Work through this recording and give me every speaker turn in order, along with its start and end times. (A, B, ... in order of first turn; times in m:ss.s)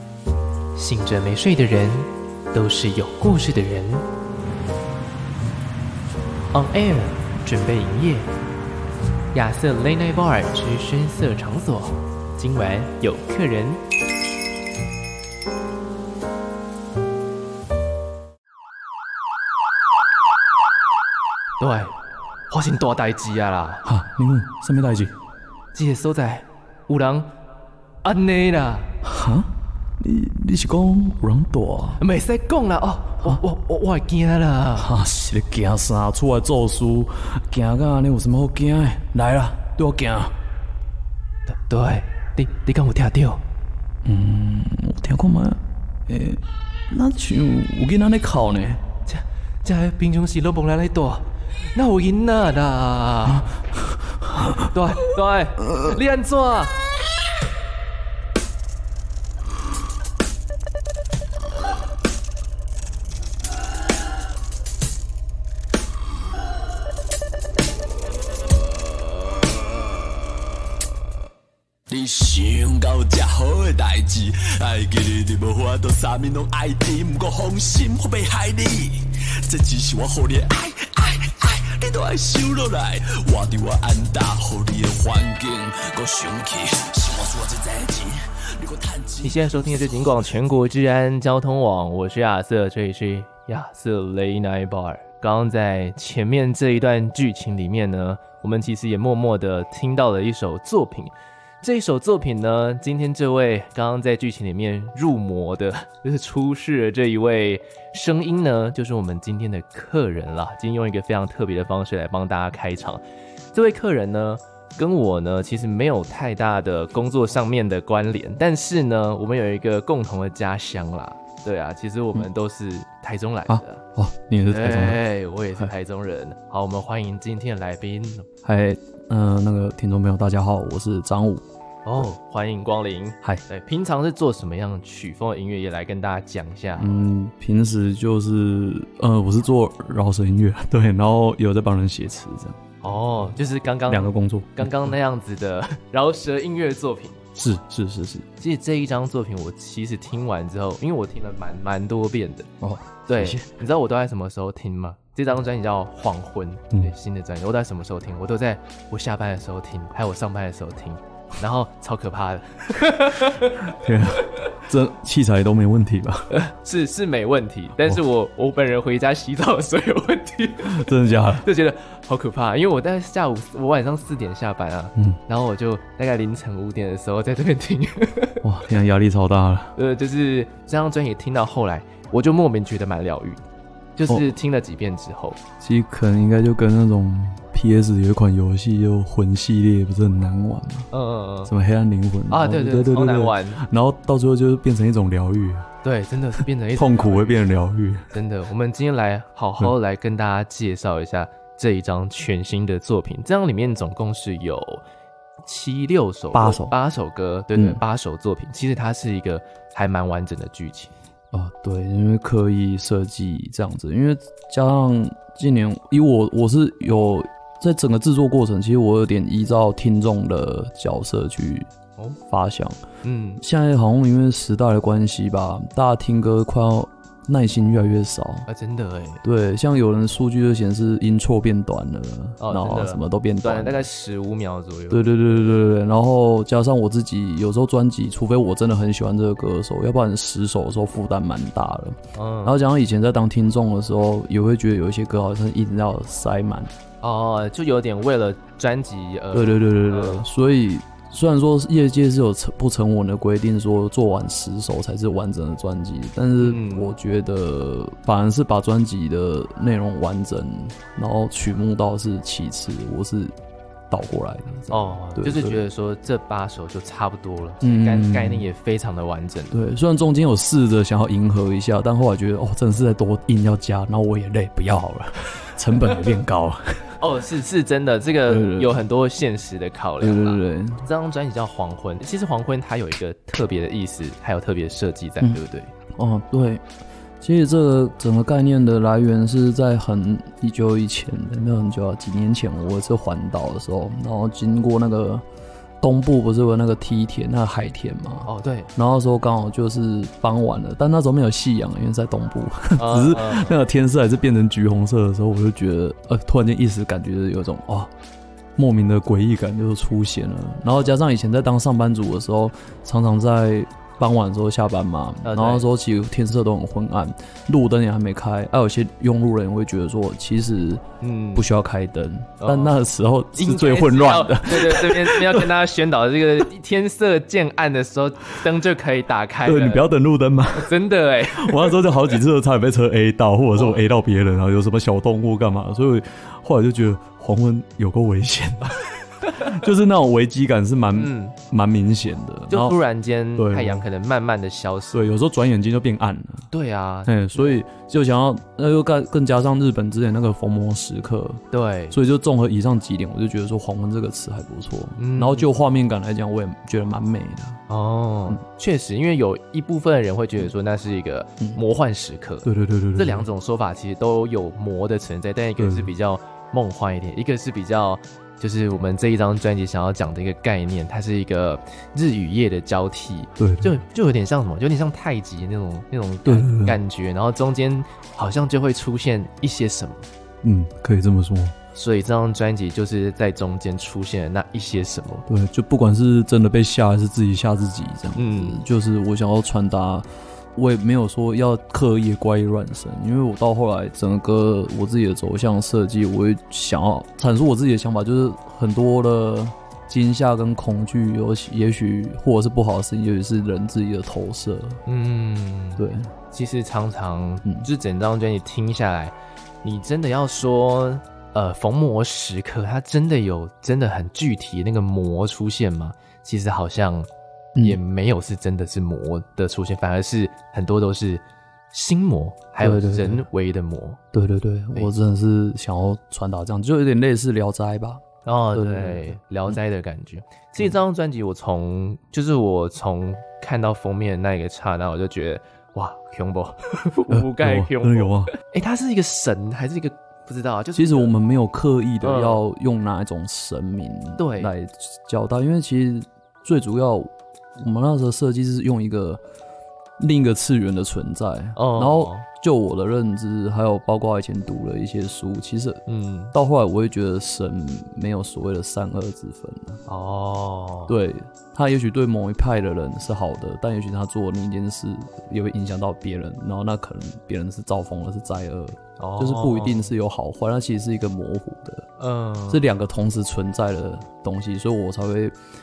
0:00.8-0:04.0 A
0:06.5-0:08.3 A
0:09.3-0:13.8 A
0:21.6-0:22.0 A
0:22.5-0:23.8 A
0:23.8-0:25.1 B
0:25.7-0:27.3 A
0:28.0-0:28.9 A
0:29.0-0:32.0 B
0:32.0-0:34.9 A
0:34.8-0:40.4 B
0:41.5-0:43.4 A
0:44.0-0:48.8 B
0:49.1-0:53.5 A
0:53.3-0:54.7 B
0:54.7-0:56.7 A
1:11.9-1:29.7 C
1:29.2-1:53.0 A
1:53.5-2:03.8 A
2:03.5-2:05.0 B
2:04.5-2:08.3 A
2:08.4-2:11.4 B
2:11.9-2:17.0 A
2:16.8-2:22.6 B
2:22.8-2:27.4 A
2:23.9-2:25.0 B
2:27.4-2:28.3 B
2:28.4-2:32.5 A
2:32.6-2:33.5 B
2:33.1-2:43.8 A
2:43.7-2:46.3 B
2:46.3-2:58.4 A
2:50.6-2:51.4 B
2:58.4-2:59.7 B
2:59.8-3:03.4 A
3:04.0-3:05.4 A
3:05.6-3:10.9 B
3:10.9-3:11.5 A
3:11.5-3:15.7 B
3:12.3-3:13.6 A
3:15.8-3:17.4 A
3:16.8-3:18.1 B
3:18.1-3:24.8 A
3:25.5-3:30.9 A
3:26.3-3:26.8 B
3:27.6-3:27.8 B
3:31.3-3:41.7 B
3:42.3-3:42.8 B
3:43.0-3:43.4 A
3:43.4-3:48.5 B
3:48.5-3:49.2 A
3:49.2-3:53.8 B
3:52.4-3:55.1 A
3:54.9-4:06.7 B
4:02.1-4:02.6 A
4:07.0-4:10.3 A
4:09.3-4:23.4 B
4:16.4-4:17.0 A
4:23.9-4:25.6 B
4:24.7-4:29.6 A
4:27.6-4:28.5 B
4:29.5-4:37.0 B
4:37.0-4:45.7 A
4:38.3-4:38.8 B
4:40.0-4:40.9 B
4:45.9-4:46.6 B
4:47.2-4:55.2 B
4:55.8-5:07.9 B
4:58.3-4:58.7 A
5:02.8-5:03.6 A
5:08.6-5:20.8 B
5:15.2-5:15.7 A
5:21.0-5:21.5 A
5:21.4-5:25.5 B
5:22.4-5:22.7 A
5:23.4-5:29.9 A
5:29.4-5:42.8 B
5:30.6-5:31.8 A
5:41.0-5:41.4 A
5:42.5-5:45.0 A
5:43.4-5:43.9 B
5:44.9-5:46.5 B
5:46.5-5:47.6 A
5:47.1-5:57.6 B
5:51.5-5:52.0 A
5:55.0-5:55.5 A
5:57.7-6:20.1 A
6:02.4-6:03.3 B
6:05.6-6:05.9 B
6:13.4-6:13.7 B
6:16.3-6:16.8 B
6:20.4-6:21.6 B
6:21.8-6:25.3 A
6:25.3-6:44.8 B
6:28.2-6:28.6 A
6:44.9-6:57.1 A
6:45.8-6:46.1 B
6:57.6-7:04.0 A
7:02.6-7:03.2 B
7:04.1-7:09.6 B
7:08.2-7:21.2 A
7:17.1-7:18.3 B
7:20.8-7:29.2 B
7:22.0-7:22.4 A
7:24.2-7:24.5 A
7:30.0-7:35.8 B
7:31.6-7:32.2 A
7:35.9-7:36.3 A
7:36.3-7:39.8 B
7:39.9-7:41.0 A
7:40.9-7:51.9 B
7:49.0-7:49.9 A
7:52.0-7:52.6 A
7:52.5-7:55.4 B